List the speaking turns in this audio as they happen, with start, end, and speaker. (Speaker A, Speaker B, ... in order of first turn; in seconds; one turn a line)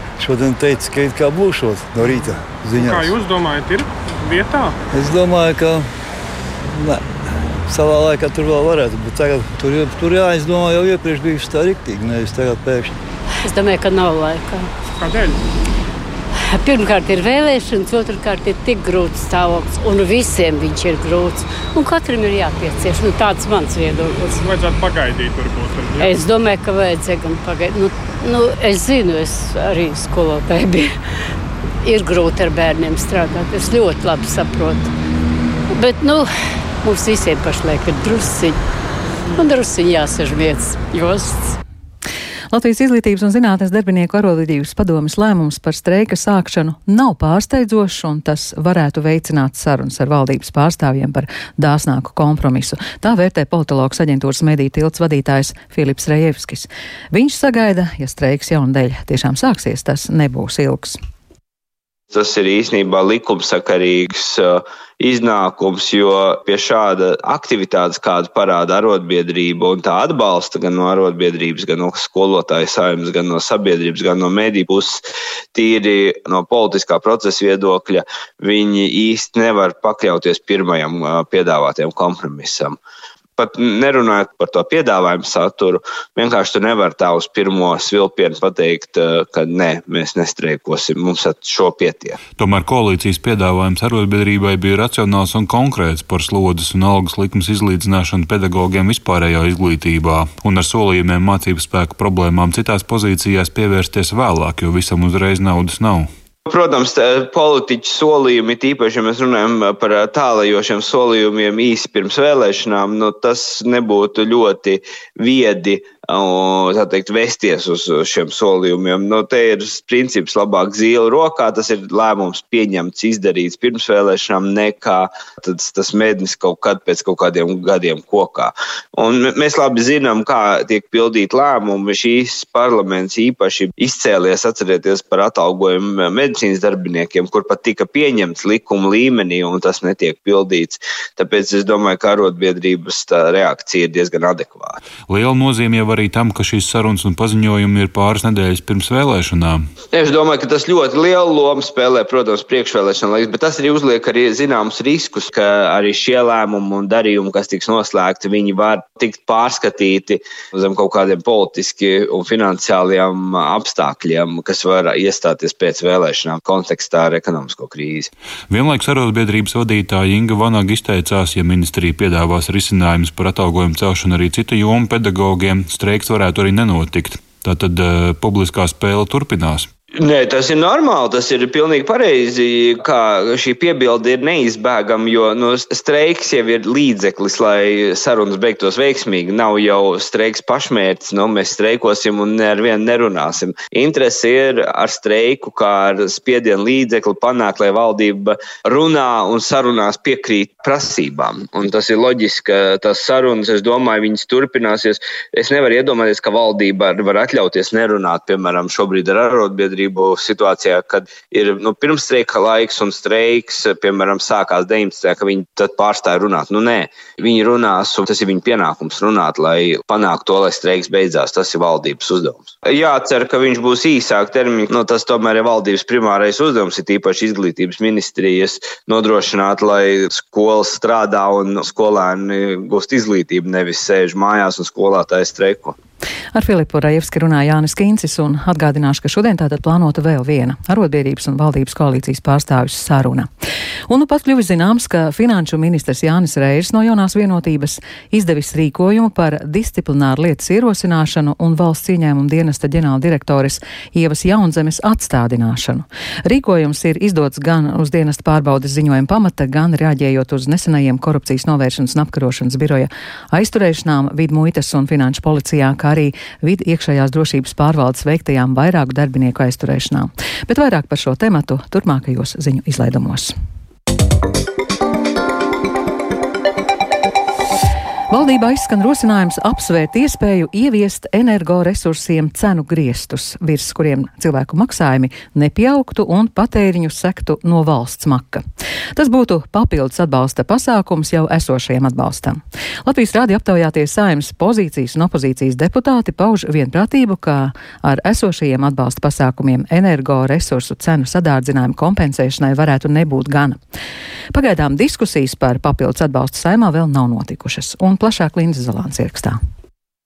Speaker A: 0.2-3.1
Speaker B: 2.8-4.8
Speaker A: 4.9-5.9
Speaker A: 6.8-7.0
Speaker A: 7.7-12.9
Speaker C: 13.4-14.7
Speaker B: 15.0-15.4
Speaker C: 16.4-24.4
Speaker B: 24.4-26.1
Speaker C: 26.0-31.0
Speaker C: 31.8-34.9
Speaker C: 35.7-36.3
Speaker C: 36.8-38.6
Speaker C: 39.3-41.6
Speaker D: 42.5-61.0
Speaker E: 62.1-82.8
Speaker E: 83.4-92.2
Speaker F: 92.3-106.1
Speaker E: 106.5-144.8
Speaker F: 145.1-149.7
Speaker E: 149.9-168.1
Speaker F: 168.5-179.7
Speaker E: 180.0-235.8
Speaker D: 236.3-243.3
Speaker D: 243.9-273.3
Speaker D: 278.1-288.4
Speaker D: 289.0-303.6
Speaker D: 304.3-309.4